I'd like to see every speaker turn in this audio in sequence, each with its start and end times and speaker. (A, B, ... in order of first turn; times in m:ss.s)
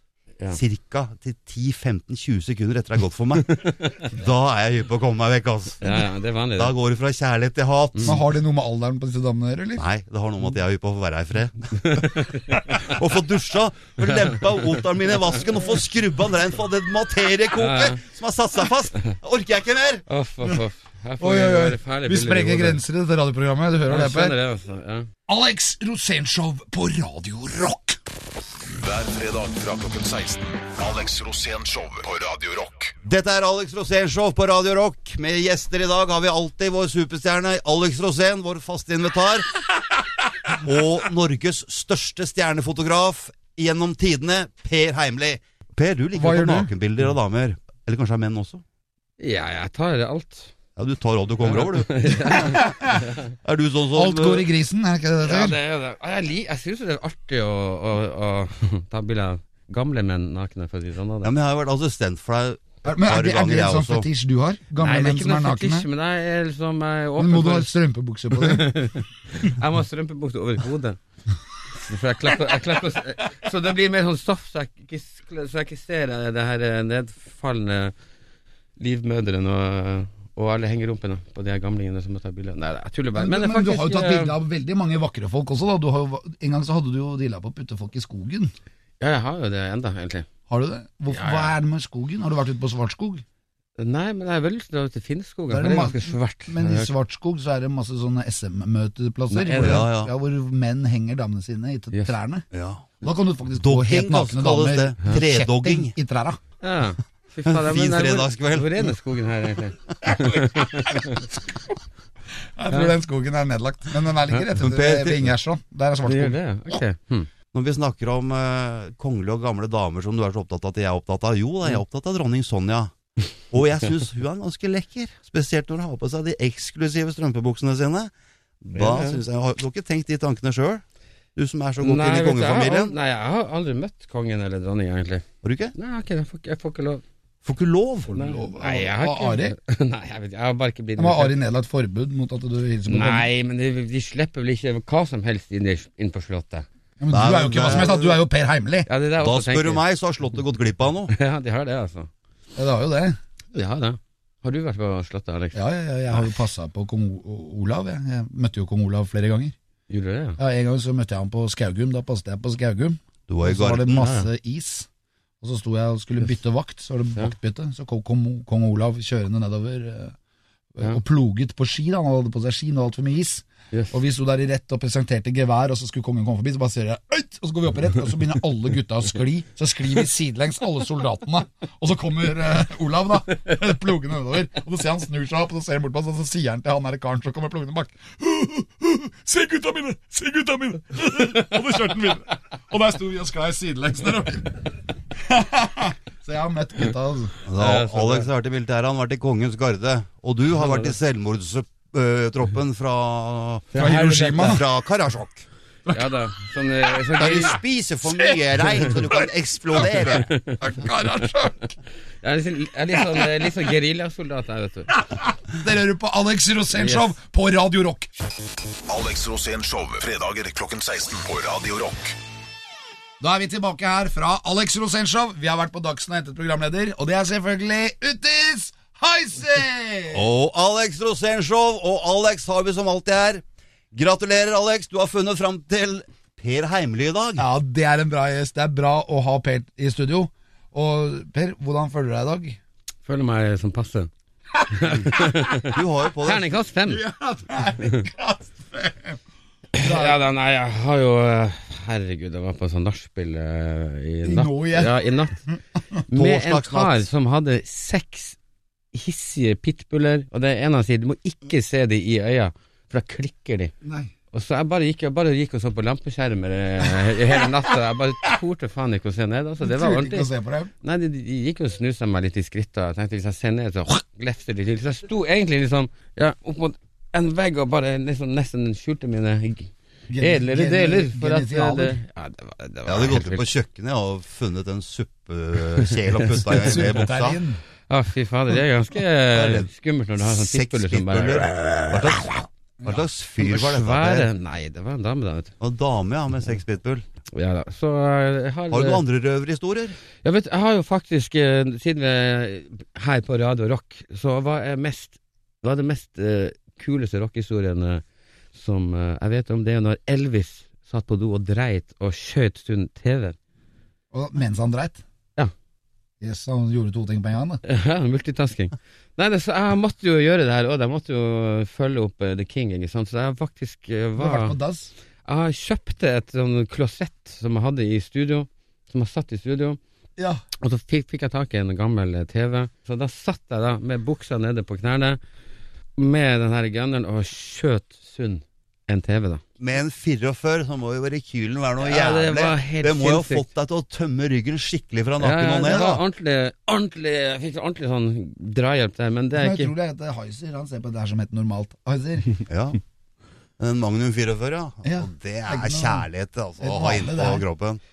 0:00.5-0:08.2 A
0:03.5-0:04.0 B
0:05.8-0:06.7 B
0:08.0-0:09.8 C
0:09.8-0:20.0 A
0:11.8-0:12.9 B
0:17.6-0:18.0 B
0:20.1-0:22.8 B
0:21.2-0:24.4 C
0:23.9-0:25.1 B
0:25.3-0:28.0 C
0:28.8-0:33.0 D
0:33.0-0:39.5 A
0:40.5-0:48.6 A
0:46.2-0:46.7 C
0:49.2-0:50.5 B
0:50.8-0:52.4 A
0:51.4-0:53.3 B
0:52.5-0:53.0 C
0:53.4-0:54.5 A
0:53.9-0:55.6 C
0:55.2-1:01.3 B
1:01.2-1:04.1 A
1:02.8-1:05.9 C
1:04.8-1:07.8 B
1:07.2-1:08.7 C
1:08.3-1:11.0 B
1:11.7-1:17.9 B
1:18.8-1:24.4 B
1:23.2-1:28.5 C
1:29.0-1:30.3 B
1:30.5-1:33.2 C
1:31.1-1:31.6 B
1:33.8-1:36.9 B
1:35.5-1:42.4 C
1:39.3-1:39.9 B
1:39.6-1:40.1 A
1:42.5-1:42.9 A
1:43.0-1:46.4 C
1:43.6-1:45.9 A
1:46.6-1:51.2 B
1:47.5-1:49.0 A
1:50.9-1:51.2 C
1:52.6-1:56.4 C
1:54.6-1:55.3 A
1:56.0-1:57.3 B
1:57.5-2:02.9 A
2:03.5-2:10.8 A
2:08.8-2:09.2 B
2:11.4-2:13.0 A
2:11.8-2:15.2 B
2:15.4-2:15.8 A
2:15.8-2:17.0 B
2:17.4-2:18.1 A
2:18.1-2:19.5 C
2:18.1-2:21.4 B
2:21.0-2:23.3 C
2:22.9-2:26.7 B
2:27.0-2:28.9 C
2:27.1-2:28.2 A
2:27.6-2:28.0 B
2:28.9-2:29.8 B
2:29.2-2:31.1 A
2:31.1-2:32.1 B
2:32.6-2:33.2 C
2:33.5-2:35.6 B
2:35.5-2:39.6 C
2:39.9-2:40.4 B
2:40.4-2:44.9 C
2:43.3-2:44.1 A
2:43.9-2:44.3 B
2:45.4-2:50.2 C
2:50.8-3:17.4 C
3:17.4-3:25.4 A
3:17.6-3:18.3 B
3:20.6-3:20.9 B
3:23.7-3:24.6 C
3:23.8-3:24.6 B
3:25.9-3:27.6 B
3:27.2-3:30.3 A
3:28.0-3:29.0 C
3:29.8-3:31.7 C
3:30.1-3:30.6 B
3:32.2-3:35.0 B
3:35.1-3:38.1 C
3:36.7-3:37.1 B
3:38.9-3:42.2 D
3:43.2-3:50.2 C
3:50.1-3:57.4 A
3:57.4-4:02.6 C
4:03.0-4:04.1 B
4:04.7-4:07.0 B
4:05.6-4:06.5 A
4:06.9-4:09.2 C
4:07.8-4:08.1 B
4:09.7-4:10.2 C
4:09.8-4:15.4 B
4:14.2-4:14.9 C
4:16.1-4:18.4 B
4:16.1-4:17.1 A
4:18.9-4:23.8 B
4:23.8-4:24.1 C
4:24.3-4:30.3 B
4:29.6-4:30.7 C
4:30.8-4:43.5 B
4:40.1-4:42.0 C
4:42.9-4:47.4 A
4:46.5-4:47.6 C
4:47.9-4:52.4 B
4:49.3-4:54.3 A
4:53.4-4:55.5 B
4:55.6-4:57.0 A
4:57.3-4:59.0 B
4:58.7-5:00.0 A
5:00.2-5:08.0 B
5:08.5-5:13.4 B
5:14.1-5:15.0 C
5:16.2-5:17.6 C
5:17.6-5:24.6 B
5:24.2-5:24.9 C
5:25.2-5:29.8 B
5:30.6-5:35.2 B
5:36.0-5:39.4 B
5:39.6-5:46.0 A
5:41.8-5:43.4 B
5:45.2-5:49.7 B
5:49.4-5:52.4 C
5:52.5-5:52.8 A
5:53.6-5:57.8 A
5:54.8-5:56.0 C
5:56.6-5:57.4 C